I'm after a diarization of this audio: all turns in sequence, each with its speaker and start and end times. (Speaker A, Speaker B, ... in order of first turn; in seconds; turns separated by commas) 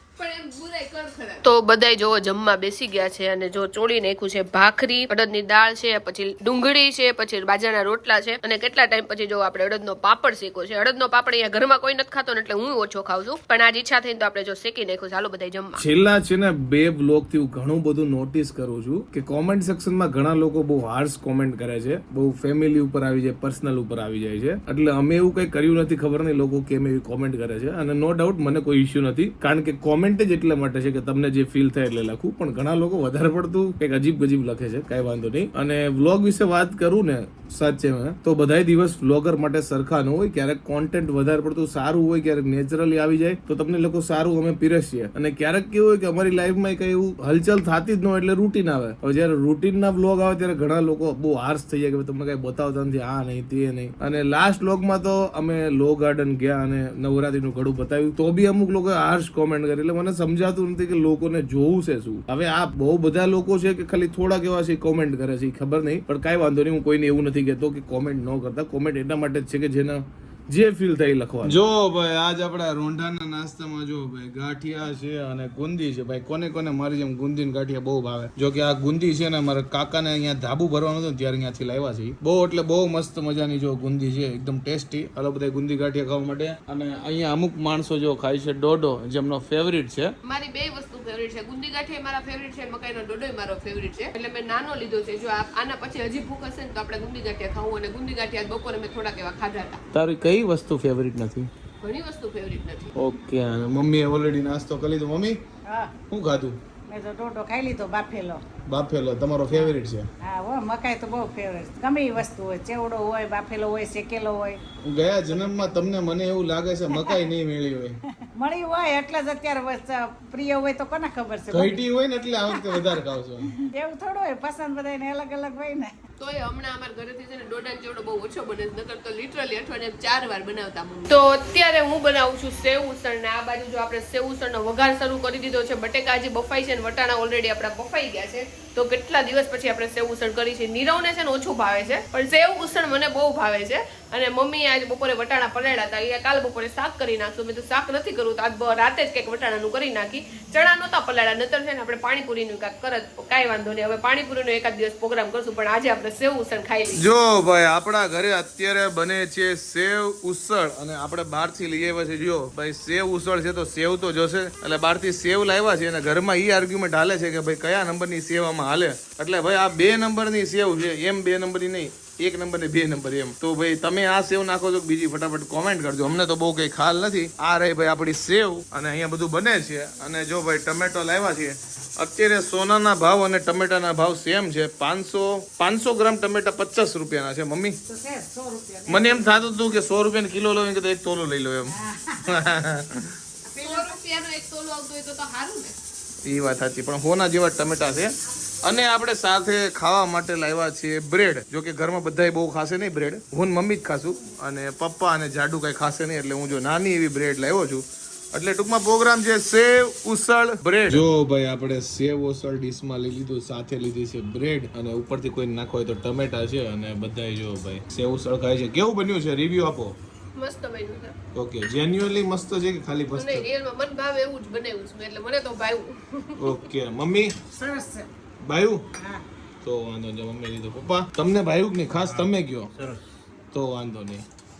Speaker A: 0.2-15.8, Speaker B: 15.8-90.1, Speaker A: 90.2-99.8, Speaker B: 99.9-101.5, Speaker A: 101.8-102.9, Speaker B: 103.0-105.4, Speaker C: 105.7-105.9, Speaker B: 106.1-106.6, Speaker C: 106.9-108.4, Speaker B: 108.7-110.1, Speaker C: 109.5-114.6, Speaker B: 114.8-118.0, Speaker C: 116.9-117.2, Speaker C: 118.3-121.8, Speaker B: 121.5-123.5, Speaker C: 122.5-122.9, Speaker C: 123.6-125.9, Speaker A: 126.2-157.0, Speaker B: 157.0-187.8, Speaker C: 187.9-189.3, Speaker B: 188.9-191.7, Speaker C: 191.7-192.5, Speaker B: 192.3-193.1, Speaker C: 193.5-193.9, Speaker A: 193.6-195.8, Speaker B: 196.2-219.9, Speaker A: 220.3-221.1, Speaker B: 221.3-223.5, Speaker A: 223.1-226.6, Speaker B: 226.4-227.3, Speaker C: 227.5-228.1, Speaker B: 228.4-228.8, Speaker C: 229.0-229.2, Speaker B: 229.6-232.7, Speaker B: 233.5-234.2